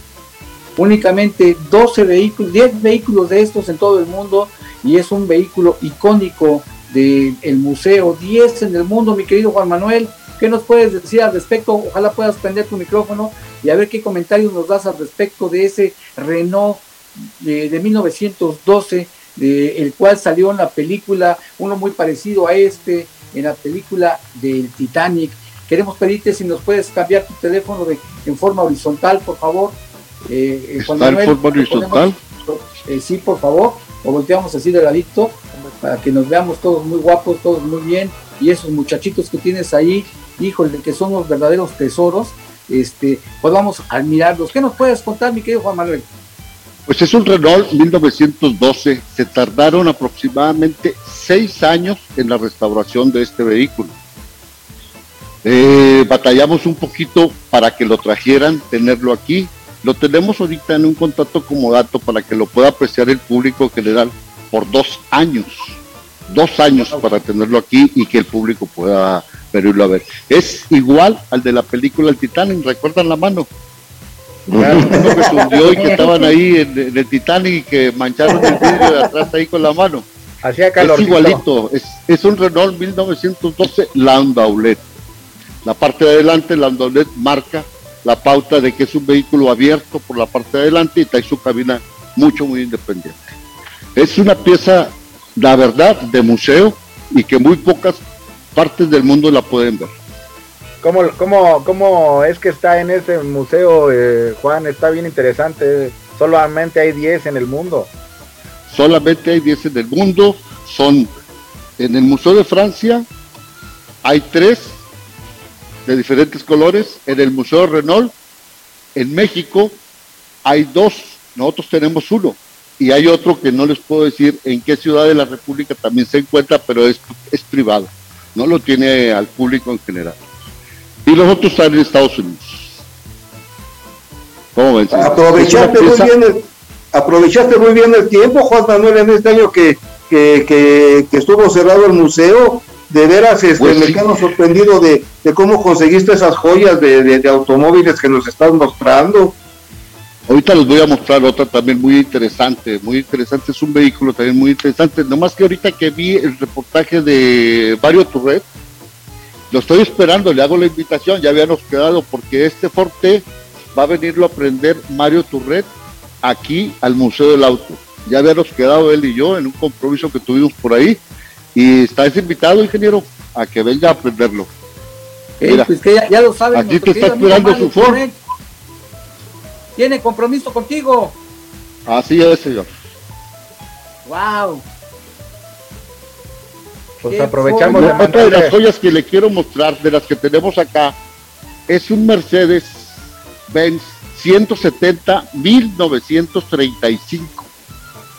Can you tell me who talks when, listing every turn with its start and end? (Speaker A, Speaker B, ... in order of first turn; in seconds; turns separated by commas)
Speaker A: 0.8-46.1, Speaker B: 30.8-32.2, Speaker B: 46.9-53.9, Speaker B: 55.4-73.5, Speaker C: 74.5-75.8, Speaker D: 74.6-76.3, Speaker B: 74.6-80.0, Speaker C: 78.2-79.1, Speaker D: 80.4-81.4, Speaker B: 80.8-84.8, Speaker B: 85.6-93.3, Speaker B: 94.0-98.0, Speaker B: 98.5-99.9, Speaker D: 100.8-107.9, Speaker B: 108.7-111.1, Speaker B: 111.8-113.1, Speaker B: 114.0-114.8, Speaker B: 115.8-118.1, Speaker B: 118.9-119.8, Speaker B: 120.4-130.2, Speaker B: 131.0-132.8, Speaker B: 134.6-136.1, Speaker C: 134.9-149.3, Speaker B: 143.6-144.1, Speaker B: 150.3-158.4, Speaker B: 159.5-165.7, Speaker B: 166.2-171.0, Speaker B: 171.5-174.5, Speaker A: 175.4-178.2, Speaker B: 175.4-175.7, Speaker B: 176.5-178.0, Speaker A: 179.8-181.2, Speaker B: 181.8-182.7, Speaker A: 184.0-184.6, Speaker D: 187.0-188.6, Speaker A: 187.1-188.3, Speaker B: 187.7-191.0, Speaker B: 191.7-197.5